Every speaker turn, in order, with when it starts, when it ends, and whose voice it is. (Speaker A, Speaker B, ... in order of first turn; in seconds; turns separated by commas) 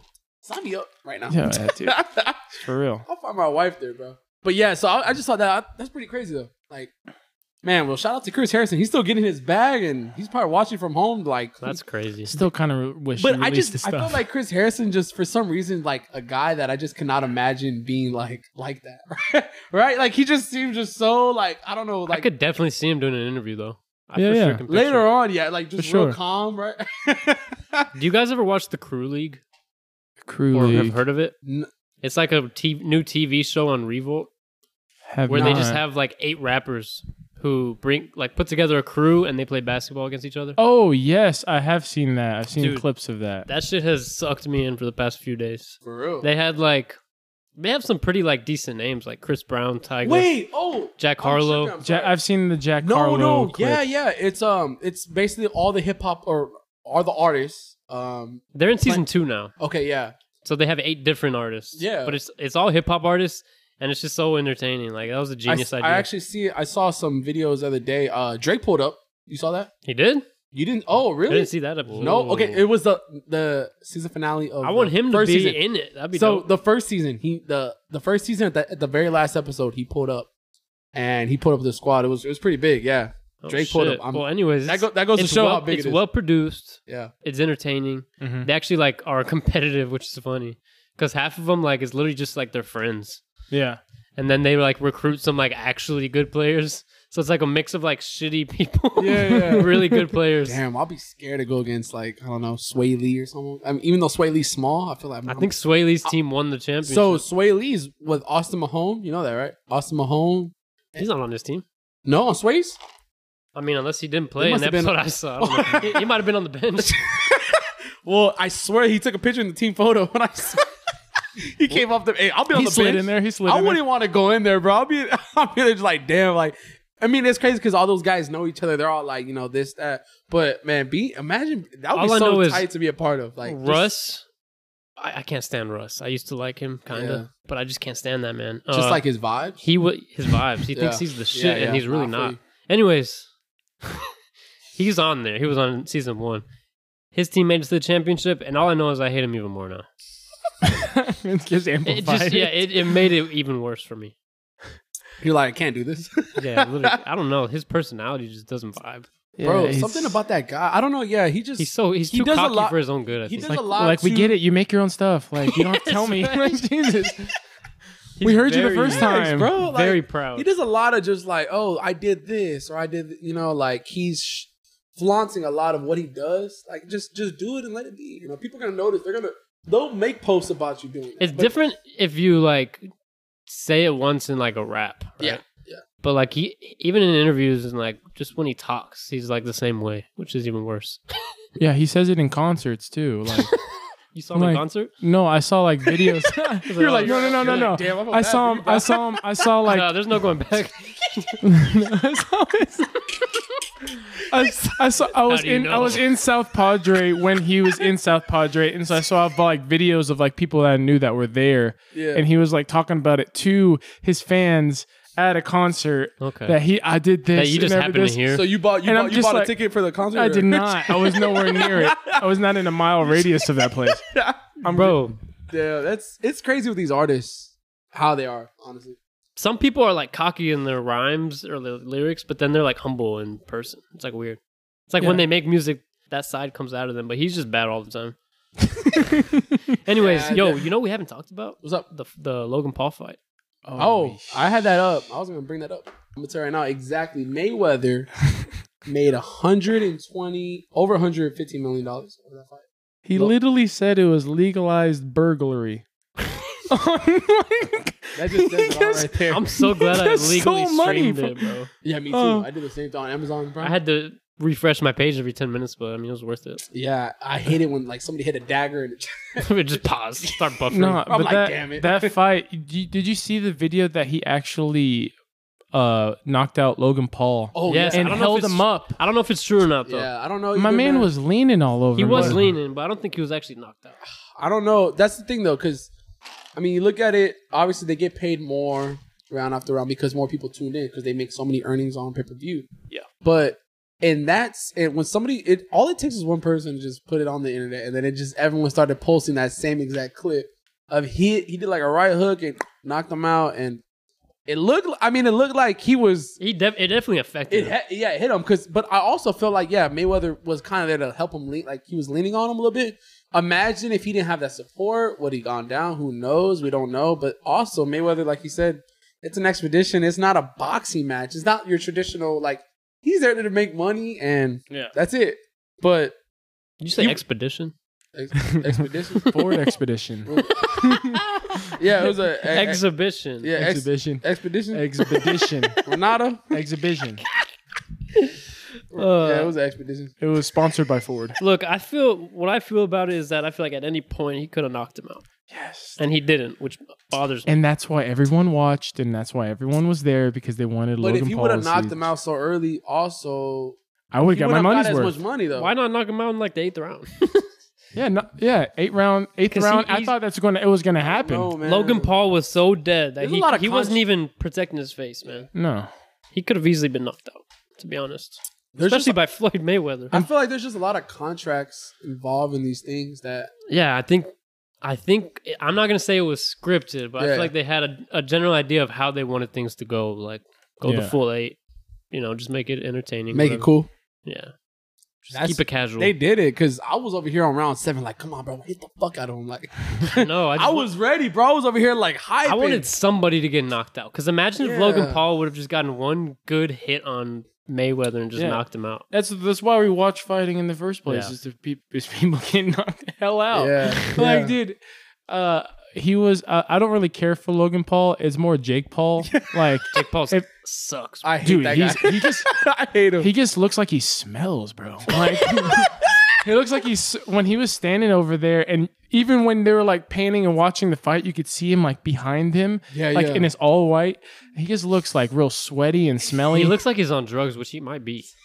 Speaker A: 0.4-6.9, Speaker B: 1.3-2.0, Speaker B: 2.5-3.0, Speaker A: 7.6-11.8, Speaker C: 11.6-12.3, Speaker B: 12.2-14.2, Speaker A: 13.2-22.3, Speaker C: 22.1-25.1, Speaker B: 24.1-24.6, Speaker A: 24.7-27.9, Speaker B: 25.8-26.2, Speaker C: 27.9-29.4, Speaker B: 30.2-31.0, Speaker C: 30.5-31.3, Speaker C: 32.0-34.3, Speaker B: 35.1-35.8, Speaker C: 35.3-40.6, Speaker A: 35.3-35.7, Speaker B: 40.6-43.5, Speaker C: 42.5-42.9, Speaker C: 43.5-47.0, Speaker A: 45.8-46.3, Speaker C: 47.6-50.3, Speaker A: 50.0-52.2, Speaker C: 51.0-51.7, Speaker B: 51.8-53.8, Speaker A: 52.8-59.0, Speaker C: 58.5-59.5, Speaker A: 59.6-60.1, Speaker C: 60.4-66.1, Speaker A: 61.7-62.2, Speaker A: 65.5-69.7, Speaker C: 69.8-70.2, Speaker A: 70.5-75.6, Speaker C: 71.3-72.7, Speaker C: 74.6-76.5, Speaker A: 76.1-80.3, Speaker A: 80.9-86.0, Speaker C: 83.4-93.2, Speaker B: 88.2-88.5, Speaker B: 93.5-93.8, Speaker C: 94.2-100.6, Speaker A: 99.0-105.5, Speaker C: 105.3-107.2, Speaker A: 106.8-110.5, Speaker C: 111.0-111.6, Speaker A: 112.0-112.8, Speaker C: 113.5-117.0, Speaker A: 114.4-116.1, Speaker A: 116.8-120.7, Speaker A: 121.4-133.9, Speaker B: 122.5-123.8, Speaker C: 131.9-132.7, Speaker C: 133.4-134.2, Speaker C: 135.0-139.0, Speaker A: 136.9-137.3, Speaker A: 138.7-139.6, Speaker C: 139.6-143.3, Speaker A: 140.7-142.4, Speaker C: 144.8-146.4, Speaker C: 147.1-149.8, Speaker B: 150.6-152.9, Speaker C: 151.8-154.1, Speaker A: 155.2-157.0, Speaker C: 156.4-159.1, Speaker B: 159.4-160.2, Speaker A: 159.4-164.4, Speaker C: 161.6-163.6, Speaker B: 163.5-167.3, Speaker C: 165.4-167.1, Speaker C: 168.2-170.4, Speaker B: 168.2-169.5, Speaker A: 168.8-181.5, Speaker C: 181.2-182.9, Speaker C: 183.5-185.4, Speaker A: 185.2-185.8, Speaker C: 186.0-191.0, Speaker B: 191.6-193.5, Speaker C: 194.1-194.9, Speaker B: 194.3-199.9, Speaker C: 196.6-197.8, Speaker A: 196.8-199.1, Speaker C: 199.6-201.4, Speaker B: 201.4-203.2, Speaker B: 204.2-218.3, Speaker C: 205.2-206.0, Speaker A: 211.9-212.2, Speaker C: 216.2-216.6, Speaker C: 217.3-218.4, Speaker A: 218.3-222.2, Speaker B: 218.8-219.5, Speaker B: 220.1-224.0, Speaker A: 224.0-229.0, Speaker B: 224.6-225.1, Speaker C: 224.7-225.2, Speaker C: 229.3-238.2, Speaker B: 238.9-239.6, Speaker C: 239.7-243.2, Speaker A: 239.9-240.7, Speaker B: 243.6-244.4, Speaker A: 243.8-248.1, Speaker A: 248.8-252.6, Speaker B: 253.1-255.8, Speaker B: 256.7-262.5, Speaker A: 258.1-259.5, Speaker C: 259.3-261.7, Speaker A: 261.8-263.8, Speaker C: 263.6-266.6, Speaker A: 266.7-269.5, Speaker C: 269.4-271.0, Speaker B: 270.7-275.1, Speaker A: 271.1-272.1, Speaker B: 275.7-278.9, Speaker A: 277.5-278.2, Speaker C: 277.7-280.1, Speaker A: 279.9-281.1, Speaker B: 280.5-282.5, Speaker C: 281.9-283.9, Speaker A: 282.1-282.4, Speaker A: 284.4-285.9, Speaker A: 286.6-292.7, Speaker A: 293.2-303.8, Speaker A: 304.5-306.4, Speaker C: 306.4-307.7, Speaker A: 307.5-326.1, Speaker C: 326.8-327.7, Speaker A: 328.1-329.3, Speaker B: 328.5-331.7, Speaker C: 329.2-329.6, Speaker A: 330.2-331.1, Speaker A: 331.7-332.8, Speaker C: 332.5-333.5, Speaker A: 333.4-335.2, Speaker B: 333.6-335.8, Speaker A: 335.8-336.5, Speaker B: 336.5-337.2, Speaker C: 338.9-339.5, Speaker A: 338.9-340.1, Speaker B: 340.2-341.4, Speaker C: 341.4-345.2, Speaker B: 345.5-346.0, Speaker C: 346.0-347.5, Speaker B: 347.4-352.1, Speaker A: 351.0-355.7, Speaker B: 354.1-355.2, Speaker C: 355.5-357.5, Speaker B: 357.9-361.6, Speaker C: 359.5-360.1, Speaker A: 361.1-362.1, Speaker C: 361.6-365.5, Speaker A: 363.2-364.0, Speaker B: 365.5-365.9, Speaker C: 366.3-370.3, Speaker A: 368.7-369.2, Speaker A: 370.1-373.5, Speaker C: 373.7-381.6, Speaker A: 377.2-377.5, Speaker B: 380.8-381.1, Speaker C: 382.1-383.7, Speaker A: 383.3-383.9, Speaker C: 384.2-384.5, Speaker C: 385.2-386.1, Speaker A: 385.3-392.9, Speaker C: 390.0-390.9, Speaker C: 392.4-399.0, Speaker A: 394.6-395.2, Speaker B: 398.4-410.4, Speaker C: 401.1-401.3, Speaker A: 403.5-404.5, Speaker A: 409.2-409.6, Speaker C: 409.9-411.3, Speaker A: 411.2-413.3, Speaker B: 411.4-412.5, Speaker B: 413.2-426.8, Speaker A: 415.6-416.1, Speaker A: 422.9-423.5, Speaker C: 426.5-428.3